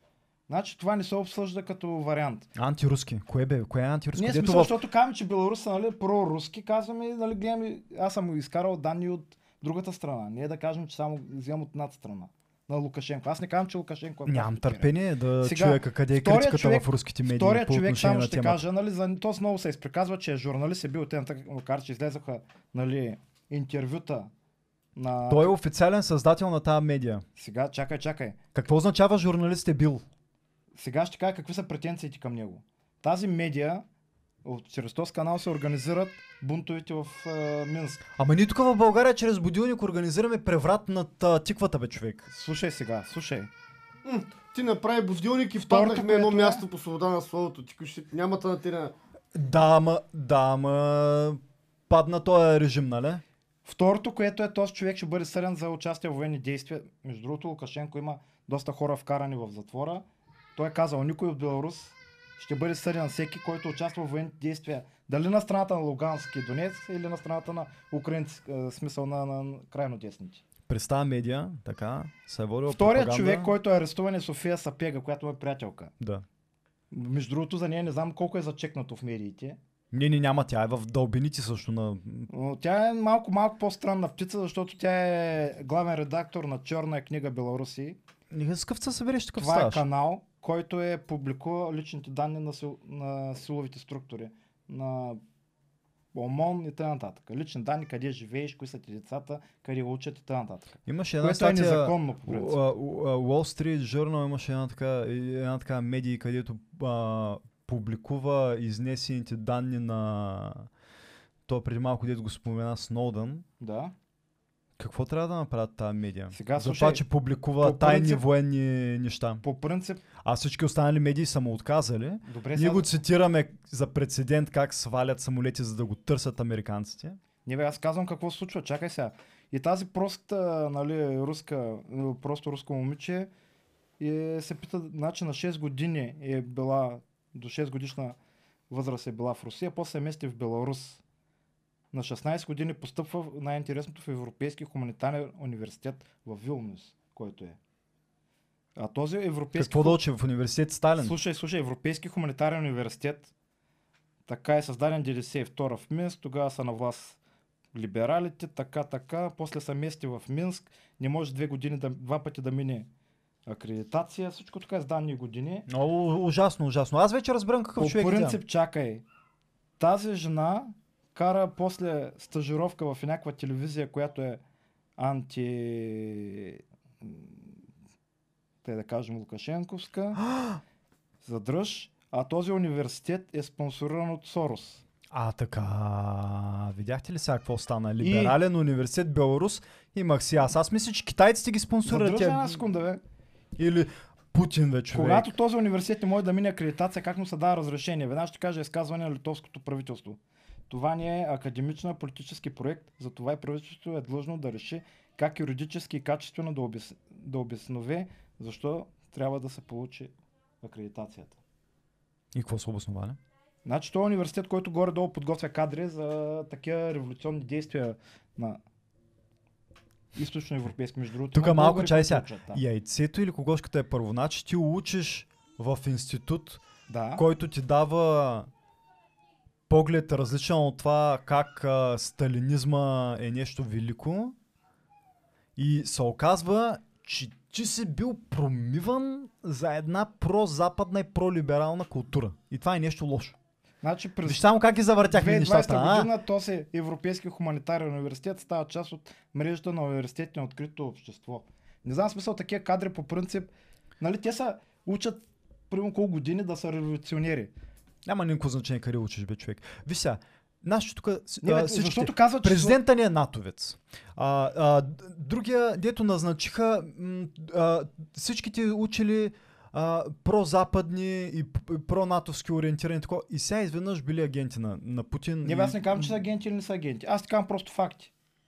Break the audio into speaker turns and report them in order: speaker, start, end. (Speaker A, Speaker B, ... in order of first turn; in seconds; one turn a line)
Speaker A: 0.5-2.5
Speaker B: 2.5-4.8
Speaker A: 4.1-14.9
Speaker B: 14.2-18.6
Speaker A: 15.4-24.3
Speaker A: 24.9-25.6
Speaker B: 25.3-27.2
Speaker A: 27.4-28.4
Speaker B: 28.5-30.0
Speaker A: 30.8-33.8
Speaker A: 34.4-38.0
Speaker B: 38.2-42.3
Speaker A: 42.3-43.5
Speaker C: 44.0-48.9
Speaker A: 45.5-46.6
Speaker B: 49.3-53.2
Speaker A: 53.6-60.0
Speaker A: 60.5-70.4
Speaker B: 70.7-73.5
Speaker A: 72.7-75.9
Speaker B: 76.0-76.2
Speaker A: 76.9-79.6
Speaker B: 79.9-82.3
Speaker A: 82.3-88.0
Speaker B: 88.3-89.8
Speaker A: 89.4-95.2
Speaker A: 96.1-102.6
Speaker B: 100.9-110.7
Speaker B: 111.5-113.4
Speaker A: 113.6-113.9
Speaker B: 114.8-119.4
Speaker A: 116.3-117.0
Speaker A: 117.6-118.2
Speaker A: 119.4-120.0
Speaker B: 120.2-127.2
Speaker A: 122.2-122.9
Speaker A: 127.5-133.3
Speaker A: 134.0-138.2
Speaker A: 138.7-141.0
Speaker A: 141.9-147.6
Speaker A: 148.8-150.0
Speaker B: 149.6-151.2
Speaker A: 151.0-153.3
Speaker A: 154.3-157.2
Speaker A: 157.7-162.9
Speaker A: 163.4-165.7
Speaker B: 165.7-168.4
Speaker A: 167.8-169.0
Speaker A: 169.8-174.4
Speaker A: 175.0-177.5
Speaker A: 178.6-180.2
Speaker B: 180.2-180.6
Speaker A: 181.2-184.8
Speaker B: 185.1-192.6
Speaker A: 188.0-188.3
Speaker A: 191.8-193.0
Speaker B: 193.6-195.3
Speaker A: 194.9-200.2
Speaker A: 200.7-211.4
Speaker B: 212.3-213.2
Speaker A: 213.6-218.6
Speaker A: 220.1-222.6
Speaker B: 221.3-226.6
Speaker A: 226.9-227.2
Speaker B: 227.2-228.5
Speaker B: 229.7-234.3
Speaker B: 235.6-243.4
Speaker A: 243.8-244.4
Speaker B: 244.2-246.1
Speaker A: 245.1-257.5
Speaker B: 258.0-276.1
Speaker A: 261.4-262.8
Speaker A: 275.4-278.1